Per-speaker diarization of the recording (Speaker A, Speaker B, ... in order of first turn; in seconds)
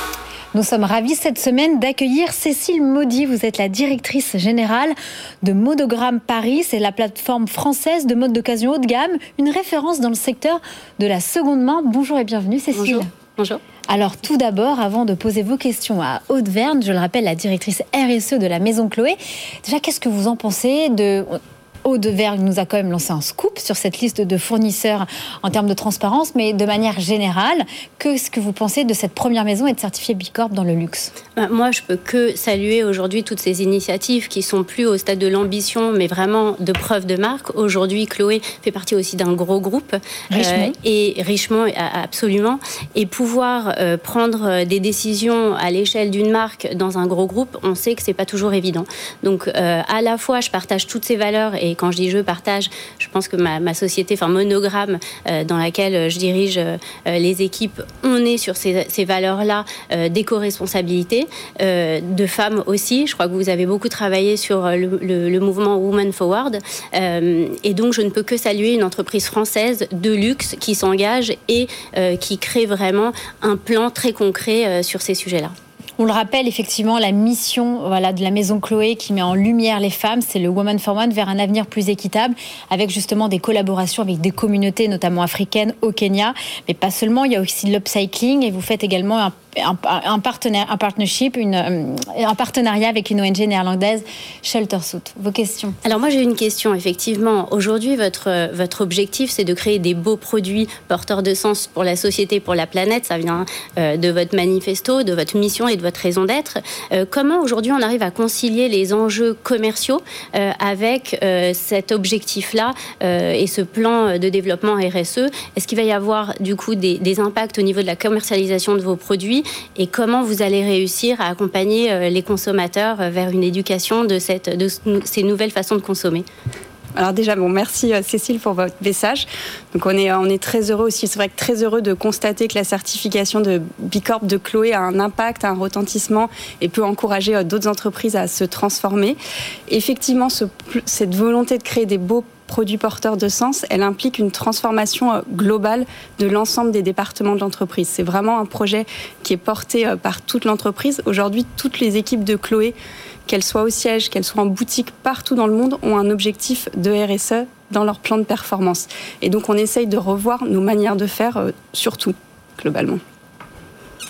Speaker A: 0.5-13.1, 13.9-31.1, 40.3-40.7, 76.0-95.8
Speaker B: 12.7-13.6, 31.4-75.5, 95.8-126.2
Speaker C: 127.0-152.8, 153.3-163.0